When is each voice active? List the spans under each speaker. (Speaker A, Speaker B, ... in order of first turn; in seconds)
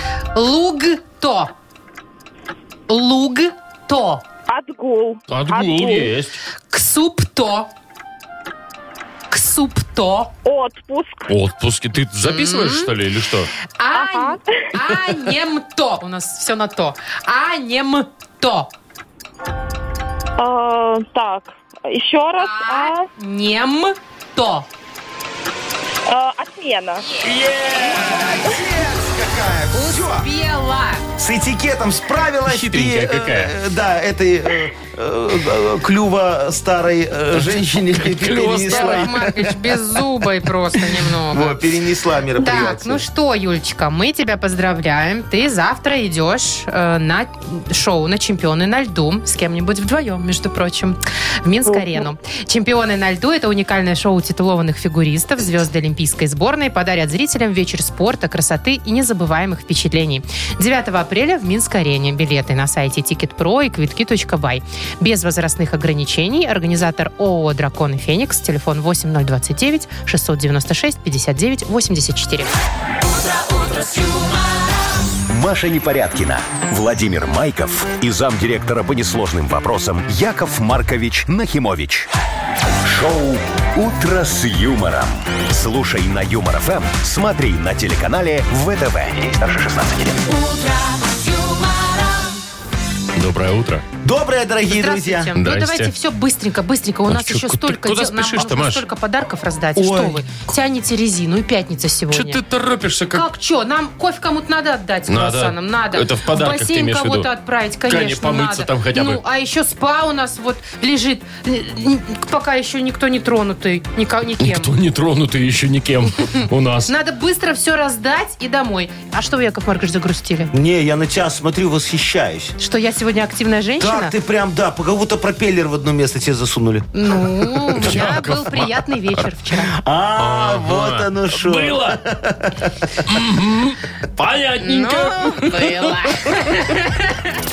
Speaker A: 0.3-1.5, 2.9-4.2, 6.7-7.7, 9.3-10.3, 12.2-12.9, 13.8-18.7, 22.4-24.7, 29.7-31.1, 38.7-41.6, 42.4-72.5, 94.7-102.4, 103.1-114.7, 116.9-120.5, 122.6-124.1, 126.9-129.8, 134.6-137.3
Speaker B: 4.5-6.1, 10.4-11.3, 13.9-14.6, 20.4-23.1, 26.1-27.1
Speaker C: 5.3-6.4, 11.3-13.5, 32.5-33.5, 37.4-39.3, 93.2-93.8, 95.4-95.9, 97.1-98.8, 102.1-103.2, 105.1-107.3, 107.9-109.2, 114.4-116.9, 127.8-129.3, 130.2-132.0, 133.1-136.3
Speaker D: 27.3-30.3, 31.2-39.6, 41.0-43.0, 94.0-95.3, 99.8-100.2, 120.5-122.6, 123.8-128.0, 129.7-133.1
Speaker E: 75.3-82.1, 82.8-90.3